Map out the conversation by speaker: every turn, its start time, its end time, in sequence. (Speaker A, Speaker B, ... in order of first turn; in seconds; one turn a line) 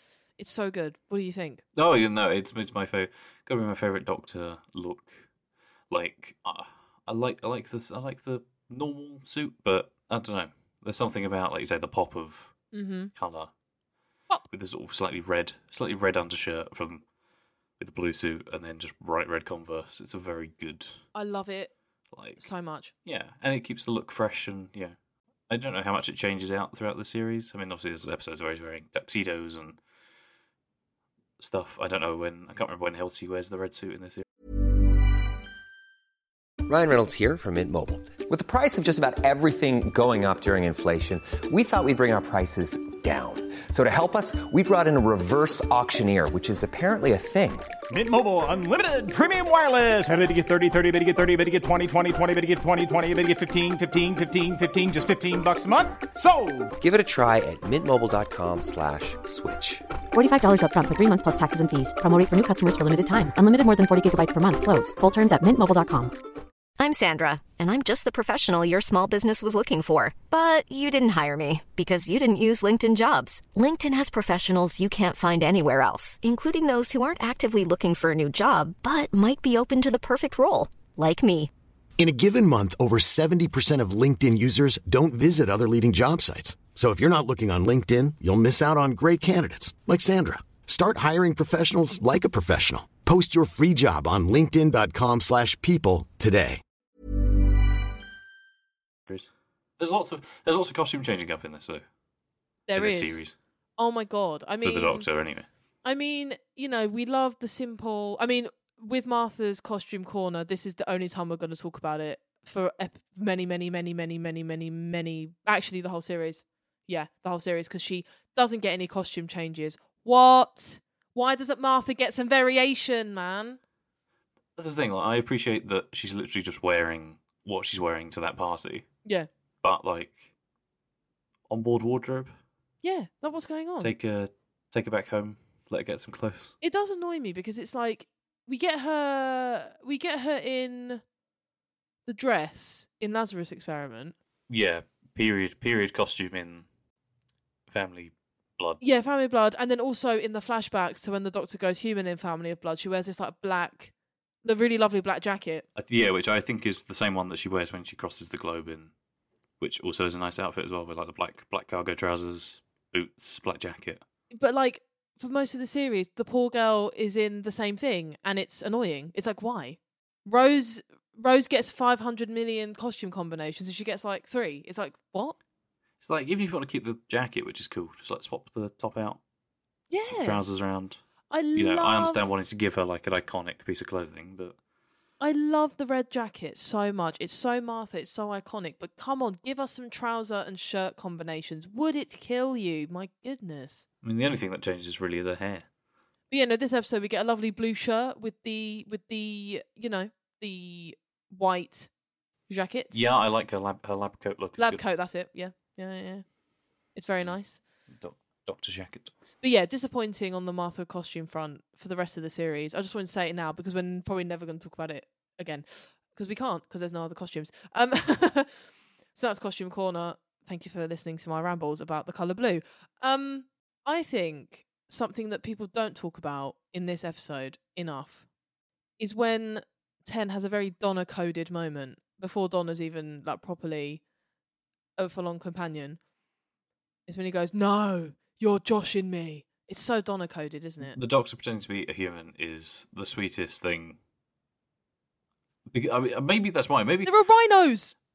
Speaker A: 0.4-1.6
Speaker B: 1.8-5.3
Speaker B: 5.9-12.6
Speaker A: 12.7-13.1
Speaker B: 13.1-13.5
Speaker B: 14.5-17.0
Speaker B: 17.8-21.1
Speaker A: 21.1-21.7
Speaker B: 22.1-22.5
Speaker A: 22.4-22.9
Speaker B: 23.0-25.0
Speaker B: 25.5-29.8
Speaker B: 31.4-34.2
Speaker C: 36.7-47.7
Speaker D: 47.9-56.7
Speaker C: 56.8-59.9
Speaker E: 60.1-66.1
Speaker F: 66.8-81.5
Speaker G: 82.0-96.6
Speaker B: 99.1-101.8
Speaker A: 102.7-103.2
Speaker B: 102.7-103.3
Speaker A: 103.8-105.1
Speaker B: 104.6-105.5
Speaker A: 105.8-123.6
Speaker B: 124.6-128.9
Speaker B: 129.6-130.3
Speaker B: 131.5-132.3
Speaker A: 132.8-133.9
Speaker B: 133.8-136.6
Speaker A: 136.6-141.0
Speaker A: 142.1-144.2
Speaker B: 144.5-146.7
Speaker B: 147.7-148.8
Speaker A: 148.8-153.9
Speaker A: 154.4-155.7
Speaker B: 155.8-158.9
Speaker B: 159.6-164.0
Speaker A: 164.3-175.4
Speaker B: 176.0-179.2
Speaker A: 179.9-180.4
Speaker B: 180.1-181.0
Speaker A: 181.3-182.2
Speaker B: 181.5-184.6
Speaker A: 185.2-193.8
Speaker B: 194.0-195.7
Speaker A: 196.3-201.9
Speaker A: 202.5-202.9
Speaker B: 202.9-204.8
Speaker A: 204.6-206.2
Speaker A: 206.9-207.6
Speaker B: 207.9-209.1
Speaker A: 209.4-218.6
Speaker A: 219.1-228.3
Speaker A: 229.0-234.0
Speaker A: 235.0-236.0
Speaker A: 237.1-241.0
Speaker B: 240.9-244.0
Speaker B: 245.7-247.1
Speaker A: 247.1-247.9